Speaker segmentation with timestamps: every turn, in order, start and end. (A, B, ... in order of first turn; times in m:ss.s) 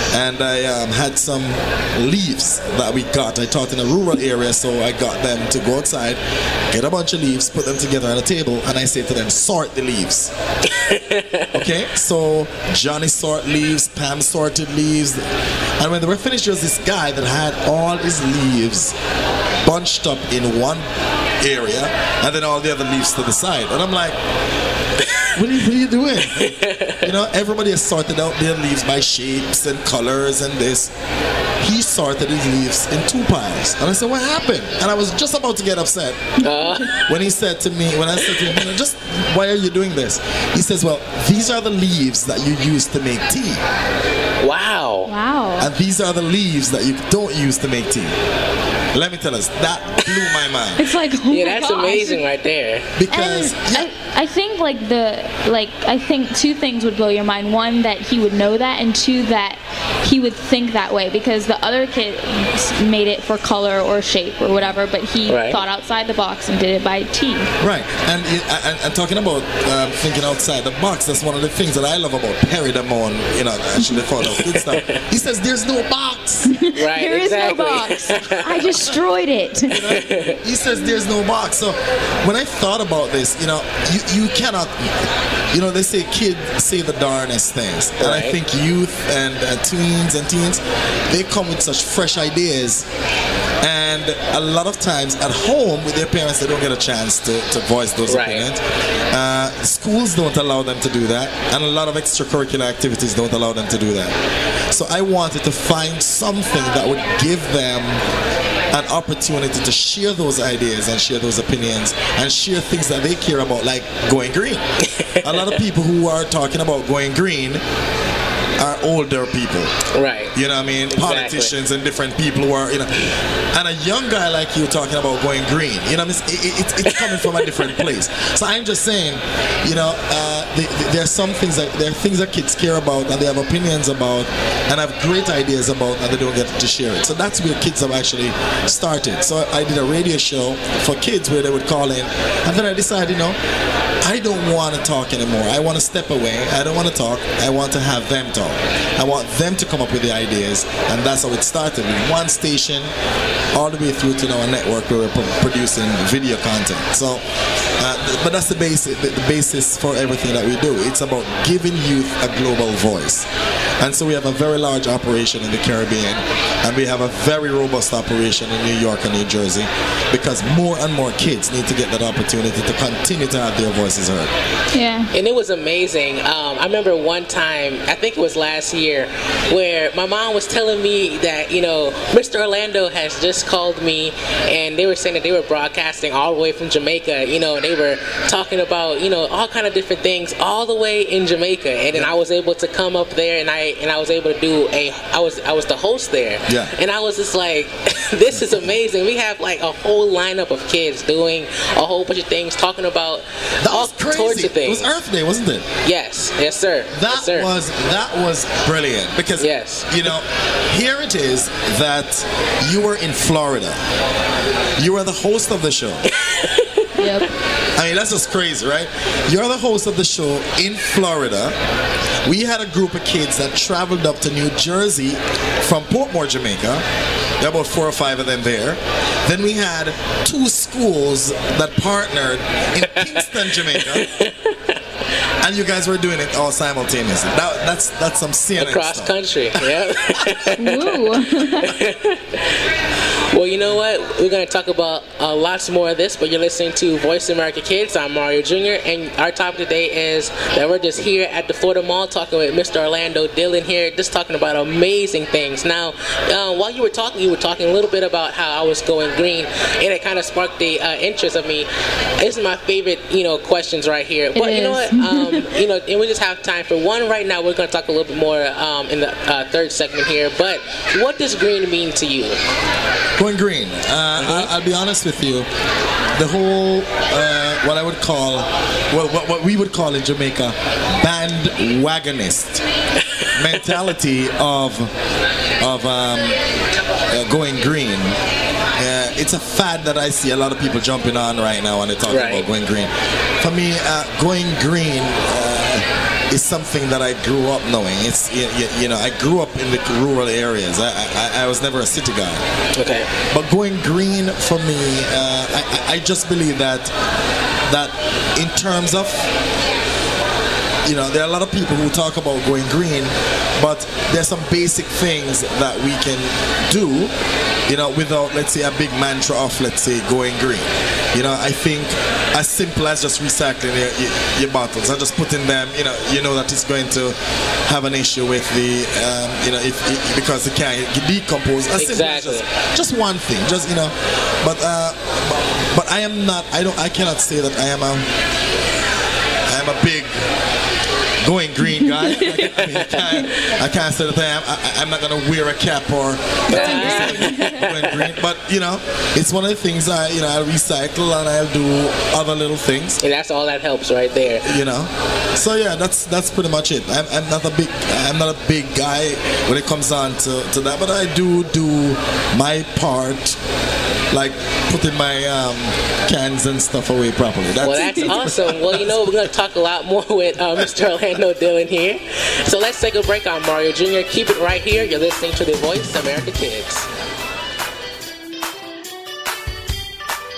0:00.1-0:10.3 A
0:10.7-0:11.5 B
0:11.5-0:15.2 A
0:15.8-0:19.0 A
0:19.6-0:20.8 A
0:21.4-0:24.2 A
0:25.4-0:30.9 A
0:26.3-0:27.0 B
0:31.6-0:36.3 A
0:36.4-0:36.9 C
0:36.4-0:37.1 B
0:37.1-0:43.6 A
0:38.3-0:38.6 B
0:44.4-0:45.1 B
0:45.1-0:45.7 C
0:45.6-0:48.2 A
0:48.9-0:50.8 A
0:50.8-0:52.2 C
0:51.3-0:52.9 B
0:53.0-0:53.9 A
0:53.1-1:07.5 C
1:05.3-1:05.6 B
1:07.6-1:16.6 A
1:14.5-1:15.0 B
1:16.5-1:19.7 C
1:16.8-1:18.8 B
1:19.7-1:20.4 B
1:19.7-1:32.9 A
1:28.0-1:28.4 B
1:33.6-1:44.2 A
1:38.1-1:38.5 B
1:44.7-1:48.0 A
1:48.7-1:54.6 A
1:54.8-1:55.5 B
1:55.2-1:57.6 A
1:58.6-1:59.7 A
2:00.0-2:00.3 B
2:00.3-2:23.4 A
2:00.9-2:01.5 B
2:07.0-2:07.6 B
2:24.0-2:32.9 A
2:33.5-2:37.2 A
2:37.8-2:43.3 A
2:43.8-2:54.3 A
2:54.7-2:55.1 C
2:55.1-3:25.0 B
3:16.5-3:16.7 A
3:23.6-3:25.7 A
3:25.8-3:27.5 B
3:26.9-3:33.8 A
3:29.4-3:29.9 B
3:34.8-3:36.1 A
3:36.1-3:36.9 B
3:37.0-3:37.3 C
3:37.8-3:41.6 A
3:42.2-3:46.9 A
3:47.4-3:54.1 A
3:53.7-3:54.8 B
3:55.4-4:00.6 A
3:58.6-4:02.6 B
4:00.6-4:01.8 C
4:03.3-4:32.4 B
4:24.4-4:25.4 C
4:33.2-4:35.5 A
4:34.2-4:34.5 B
4:36.2-4:42.6 A
4:43.2-4:43.6 B
4:43.4-4:44.9 A
4:45.6-4:46.4 A
4:47.1-4:48.2 A
4:48.8-5:02.4 A
4:52.1-4:52.5 B
5:02.8-5:03.1 B
5:03.3-5:06.9 A
5:07.7-5:09.3 A
5:10.9-5:17.1 A
5:17.7-5:38.1 A
5:31.8-5:32.4 B
5:39.5-5:40.3 A
5:41.2-5:53.0 A
5:41.8-5:42.3 C
5:42.6-5:43.3 B
5:46.5-5:47.5 C
5:46.5-5:48.1 B
5:53.0-5:54.4 B
5:54.4-6:03.4 A
6:04.1-6:09.0 A
6:07.6-6:16.9 B